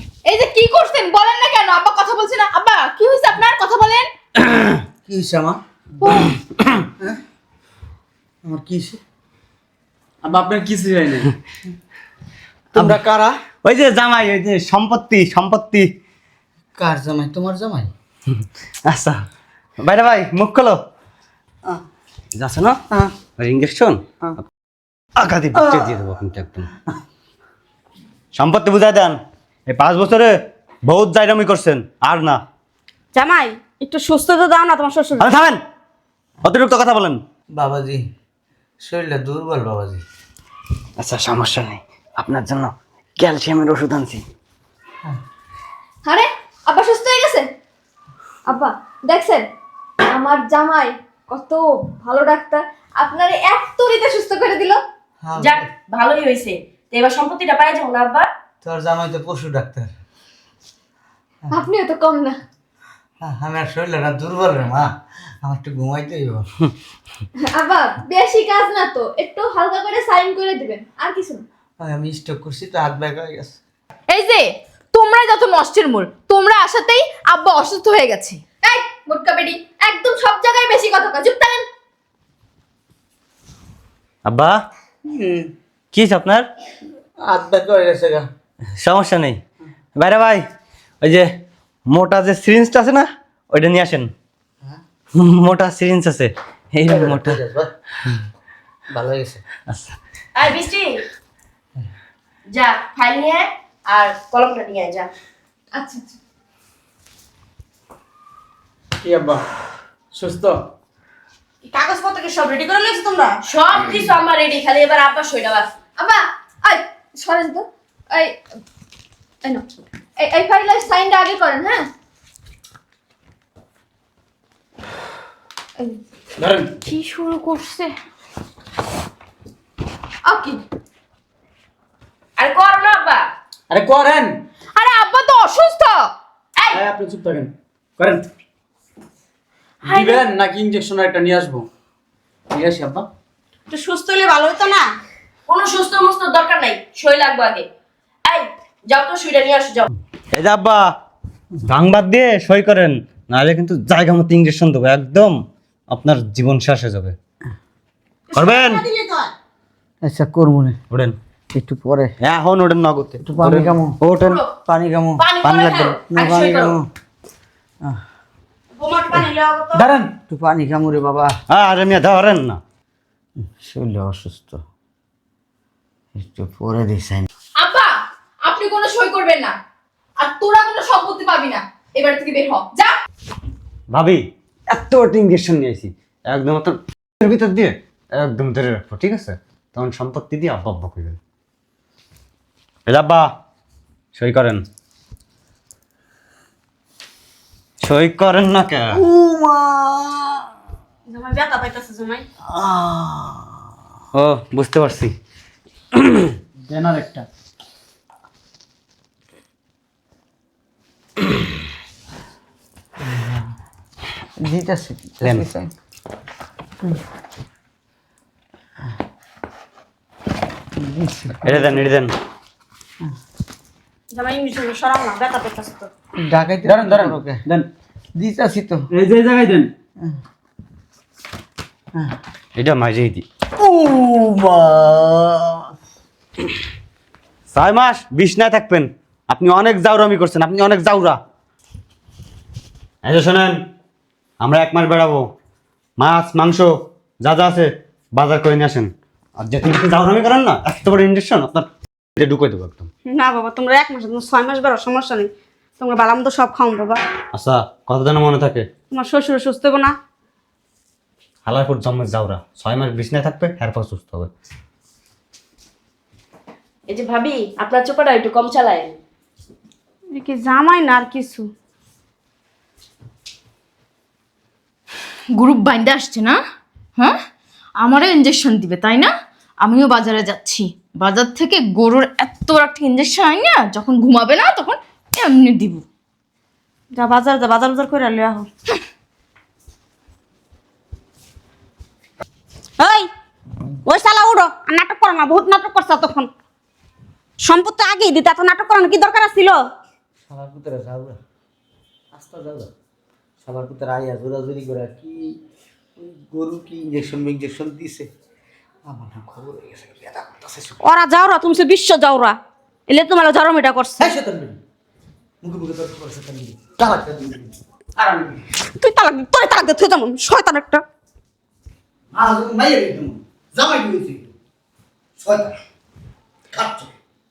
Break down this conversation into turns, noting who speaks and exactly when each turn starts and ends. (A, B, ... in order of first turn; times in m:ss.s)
0:00.2-0:04.0 A
0:05.0-0:06.3 B
0:08.4-0:09.0 B
0:10.2-0:11.3 C
0:12.7-0:13.0 D
0:12.7-0:13.3 B
0:13.6-0:15.9 D
0:16.8-0:17.9 B
0:18.8-0:19.2 D
0:19.8-0:20.8 D
0:22.3-0:22.8 D
0:23.4-0:24.0 D
0:25.2-0:26.7 D
0:28.3-0:29.2 D
0:29.7-0:30.3 D
0:30.8-0:32.4 D
0:33.1-0:35.2 E
0:35.2-0:35.6 D
0:36.4-0:37.2 D
0:37.6-0:38.0 B
0:38.8-0:40.0 B
0:41.0-0:44.2 D
0:46.0-0:47.5 F
0:48.4-0:49.5 F
0:50.1-0:54.8 F
0:55.2-0:55.7 B
0:55.4-0:58.3 G
0:58.6-0:59.9 B
1:01.5-1:02.4 F
1:03.2-1:04.9 B
1:05.4-1:06.4 B
1:07.4-1:11.4 F
1:11.8-1:13.6 B
1:14.1-1:18.4 A
1:18.6-1:21.6 F
1:24.2-1:24.6 D
1:25.9-1:26.4 D
1:27.2-1:28.2 B
1:28.8-1:29.4 D
1:29.9-1:30.4 D
1:31.9-1:34.1 D
1:35.1-1:37.4 D
1:36.8-1:37.7 B
1:38.9-1:39.4 B
1:40.3-1:41.0 G
1:42.5-1:45.1 G
1:45.7-1:46.2 F
1:49.0-1:49.4 C
1:50.1-1:50.6 C
1:51.6-1:53.4 E
1:53.4-1:55.7 G
1:56.0-1:58.4 F
2:00.2-2:01.9 F
2:06.4-2:06.8 C
2:10.2-2:10.6 F
2:12.4-2:13.3 G
2:13.7-2:14.4 C
2:14.8-2:15.9 A
2:16.7-2:18.3 C
2:19.8-2:21.7 C
2:22.5-2:23.1 C
2:23.7-2:24.9 E
2:25.5-2:27.7 G
2:28.2-2:29.9 G
2:30.3-2:30.9 D
2:31.6-2:35.4 D
2:35.9-2:37.2 D
2:38.3-2:39.3 E
2:38.3-2:38.8 D
2:40.0-2:40.8 B
2:40.9-2:41.2 D
2:41.5-2:42.1 B
2:42.2-2:44.4 D
2:43.2-2:44.0 B
2:44.6-2:45.2 B
2:45.2-2:46.7 G
2:45.4-2:46.0 D
2:46.1-2:46.8 B
2:48.8-2:49.9 E
2:49.7-2:50.1 C
2:50.3-2:51.3 B
2:51.5-2:52.6 D
2:53.6-2:54.6 B
2:56.2-2:57.2 B
2:57.6-2:57.9 A
2:58.5-2:59.5 A
3:00.2-3:02.9 A
3:03.9-3:11.2 D
3:12.8-3:13.3 D
3:14.1-3:14.6 D
3:17.8-3:19.0 D
3:19.1-3:20.2 B
3:21.1-3:22.2 E
3:22.6-3:23.2 B
3:24.1-3:25.1 D
3:26.7-3:27.2 C
3:33.1-3:33.4 B
3:34.4-3:35.7 B
3:35.2-3:35.4 D
3:40.8-3:41.8 B
3:41.4-3:42.1 D
3:44.1-3:45.9 E
3:46.2-3:47.4 B
3:46.6-3:47.7 C
3:48.1-3:48.8 B
3:48.9-3:49.7 C
3:52.6-3:53.2 D
3:53.6-3:55.6 B
3:57.5-4:01.2 D
4:03.0-4:03.6 D
4:04.4-4:05.2 D
4:06.0-4:06.7 D
4:07.2-4:12.9 D
4:13.0-4:17.0 E
4:17.3-4:18.6 D
4:18.9-4:19.9 E
4:21.4-4:24.3 D
4:26.9-4:29.0 G
4:30.1-4:31.5 E
4:35.4-4:36.4 A
4:37.8-4:39.1 A
4:39.6-4:45.8 A
4:46.9-4:48.5 E
4:52.8-4:53.1 E
4:53.8-4:56.3 E
4:57.4-4:59.6 E
5:00.3-5:01.2 B
5:02.1-5:02.7 B
5:03.4-5:05.3 B
5:06.0-5:08.1 B
5:08.8-5:10.8 B
5:10.8-5:12.4 E
5:12.9-5:14.1 E
5:14.0-5:14.6 B
5:15.4-5:17.5 B
5:18.6-5:20.8 E
5:22.1-5:24.3 B
5:25.2-5:25.5 B
5:26.5-5:26.9 B